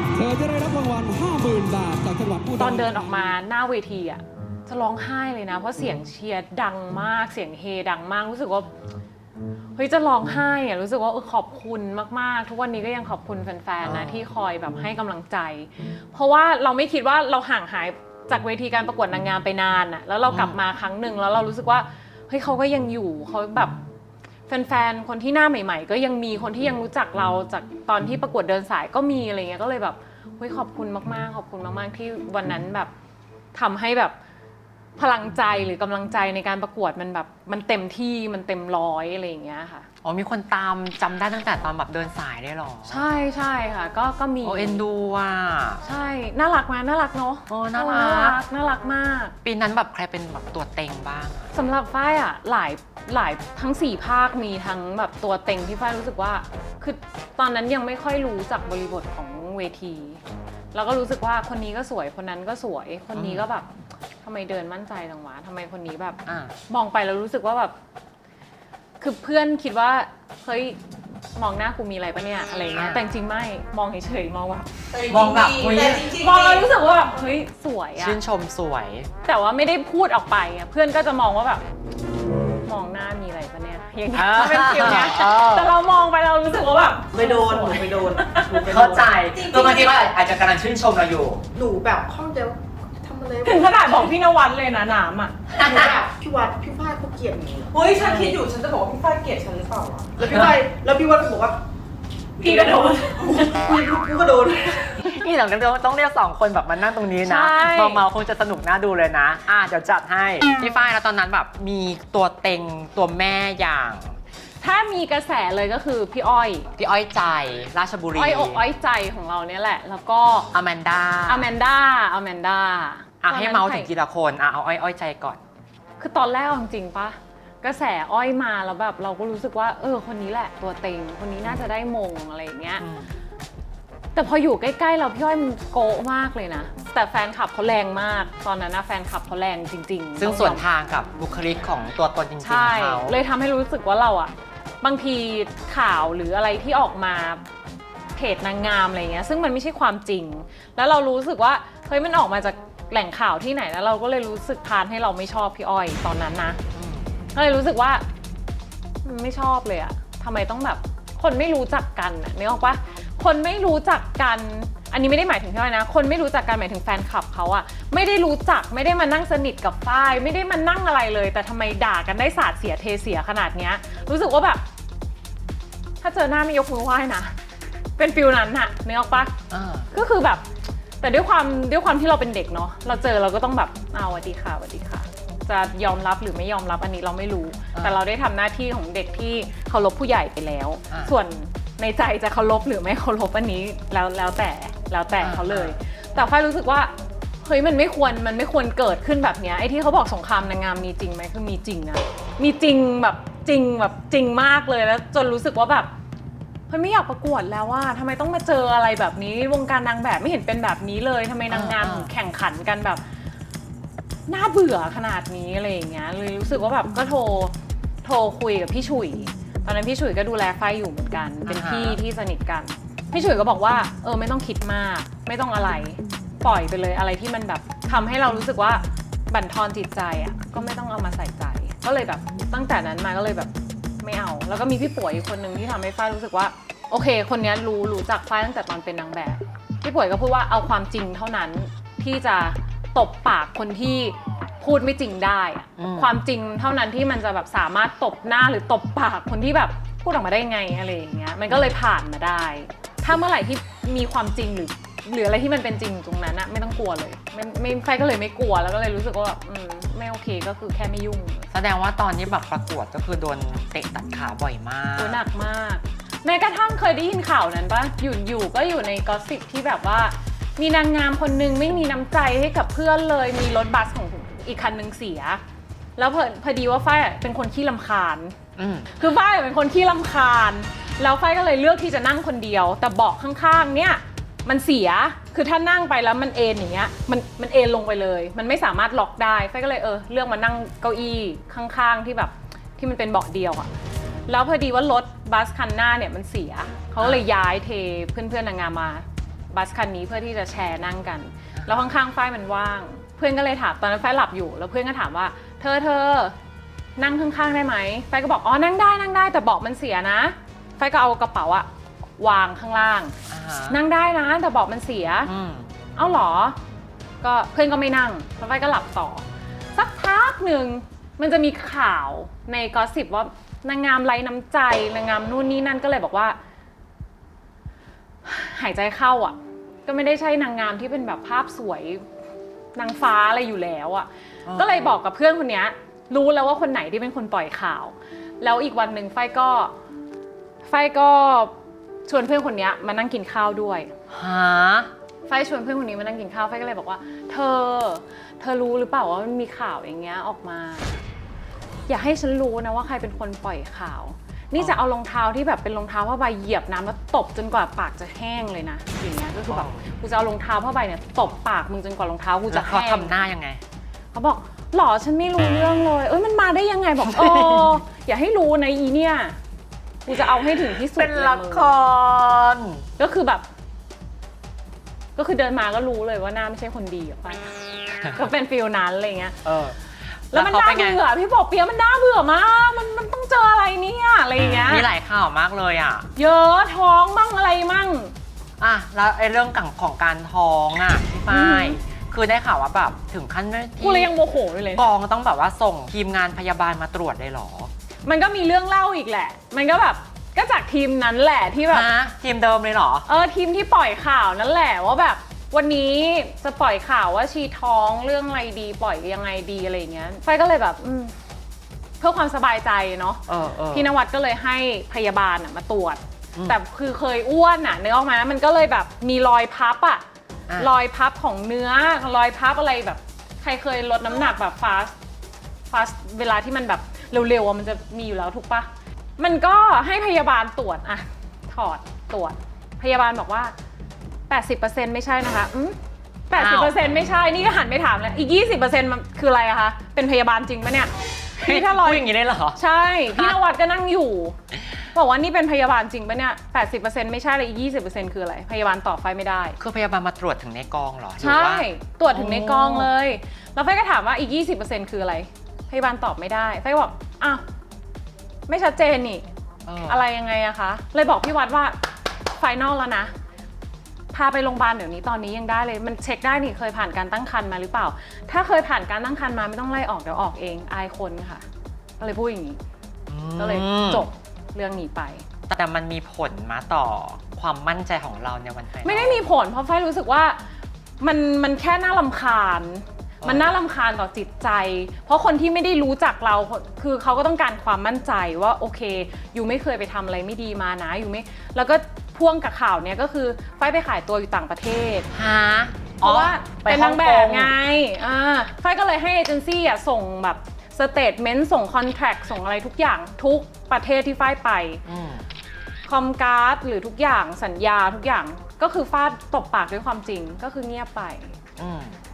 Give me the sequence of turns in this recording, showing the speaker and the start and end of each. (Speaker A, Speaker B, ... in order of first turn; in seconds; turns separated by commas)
Speaker A: 0.1-3.1, Speaker B: 2.6-8.7, Speaker B: 9.8-23.8, Speaker C: 13.8-14.3, Speaker C: 20.3-20.6, Speaker B: 24.5-32.9, Speaker B: 33.5-34.1, Speaker B: 35.0-39.9, Speaker C: 40.0-43.0, Speaker B: 42.9-44.8, Speaker C: 44.4-45.8, Speaker B: 45.8-49.4, Speaker C: 47.5-48.4, Speaker C: 49.4-51.5, Speaker B: 51.5-60.2, Speaker B: 60.7-63.7, Speaker C: 63.1-63.5, Speaker B: 64.2-67.7, Speaker C: 66.2-66.5, Speaker B: 69.0-70.8, Speaker B: 71.4-74.7, Speaker C: 72.7-73.0, Speaker D: 74.9-76.7, Speaker C: 75.1-76.1, Speaker B: 76.1-78.2, Speaker C: 78.0-79.1, Speaker B: 79.2-81.6, Speaker B: 82.6-88.5, Speaker C: 84.1-85.8, Speaker E: 87.1-89.1, Speaker C: 88.6-91.4, Speaker D: 89.3-89.9, Speaker E: 91.5-94.1, Speaker B: 93.4-95.5, Speaker C: 95.5-95.9, Speaker E: 95.6-97.8, Speaker D: 97.7-100.1, Speaker E: 100.2-101.6, Speaker D: 102.4-103.4, Speaker B: 102.4-103.2, Speaker E: 102.5-104.8, Speaker C: 105.0-114.2, Speaker B: 107.2-108.0, Speaker B: 114.6-116.7, Speaker C: 116.8-118.6, Speaker B: 118.1-120.5, Speaker C: 120.5-121.5, Speaker B: 121.3-123.9, Speaker C: 123.2-125.4, Speaker B: 126.0-132.8, Speaker C: 132.8-133.1, Speaker B: 134.1-140.6, Speaker C: 140.2-143.2, Speaker B: 142.4-147.4, Speaker B: 148.2-156.6, Speaker C: 156.7-157.1, Speaker B: 157.3-158.0, Speaker B: 159.0-174.6, Speaker B: 176.0-177.4, Speaker B: 178.0-179.4, Speaker C: 179.5-179.9, Speaker B: 179.9-180.4, Speaker B: 181.0-196.9, Speaker C: 195.2-195.8, Speaker B: 197.4-205.9, Speaker B: 206.7-213.0, Speaker C: 211.5-212.1, Speaker B: 214.3-261.5, Speaker C: 221.4-222.0, Speaker C: 245.8-246.2, Speaker C: 251.5-251.8, Speaker C: 261.5-265.2, Speaker B: 265.0-275.4, Speaker B: 276.0-278.4, Speaker C: 278.6-278.9, Speaker B: 278.9-293.7, Speaker B: 294.3-306.4, Speaker C: 301.6-301.9, Speaker B: 307.0-313.1, Speaker C: 313.3-313.8, Speaker B: 313.7-315.3, Speaker C: 315.2-315.7, Speaker B: 315.9-316.6, Speaker B: 317.2-326.4, Speaker B: 328.2-332.0, Speaker B: 332.8-339.7, Speaker C: 334.4-335.0, Speaker B: 340.6-341.5, Speaker B: 342.1-343.9, Speaker C: 344.1-344.9, Speaker B: 345.3-351.0, Speaker B: 351.9-363.2, Speaker C: 359.5-359.8, Speaker C: 362.5-363.6, Speaker B: 364.1-369.4, Speaker C: 367.0-367.8, Speaker B: 370.0-371.7, Speaker C: 370.4-372.9, Speaker B: 373.0-373.4, Speaker B: 375.1-379.4, Speaker C: 379.4-379.8, Speaker C: 380.3-381.0, Speaker B: 380.3-384.9, Speaker C: 384.6-386.1, Speaker B: 386.1-388.1, Speaker C: 388.6-394.1, Speaker B: 391.3-391.8, Speaker B: 393.8-394.9, Speaker C: 394.7-397.7, Speaker B: 398.1-401.9, Speaker C: 401.7-403.1, Speaker B: 403.1-411.1, Speaker B: 412.0-420.0, Speaker C: 413.3-413.9, Speaker B: 420.6-425.0, Speaker B: 425.7-433.5, Speaker B: 434.3-435.8, Speaker B: 436.3-442.0, Speaker C: 436.3-436.8, Speaker C: 441.4-442.6, Speaker B: 442.6-444.4, Speaker B: 444.9-449.6, Speaker C: 449.6-452.9, Speaker B: 451.2-457.4, Speaker B: 458.5-459.2, Speaker C: 459.6-460.0, Speaker B: 459.9-463.1, Speaker B: 464.1-471.5, Speaker B: 472.0-472.6, Speaker C: 473.1-474.1, Speaker B: 473.3-475.2, Speaker C: 475.5-479.3, Speaker B: 478.8-480.4, Speaker B: 481.0-495.1, Speaker C: 483.2-483.5, Speaker C: 495.1-497.6, Speaker B: 496.0-504.8, Speaker C: 504.8-505.2, Speaker B: 505.9-511.4, Speaker C: 511.6-512.0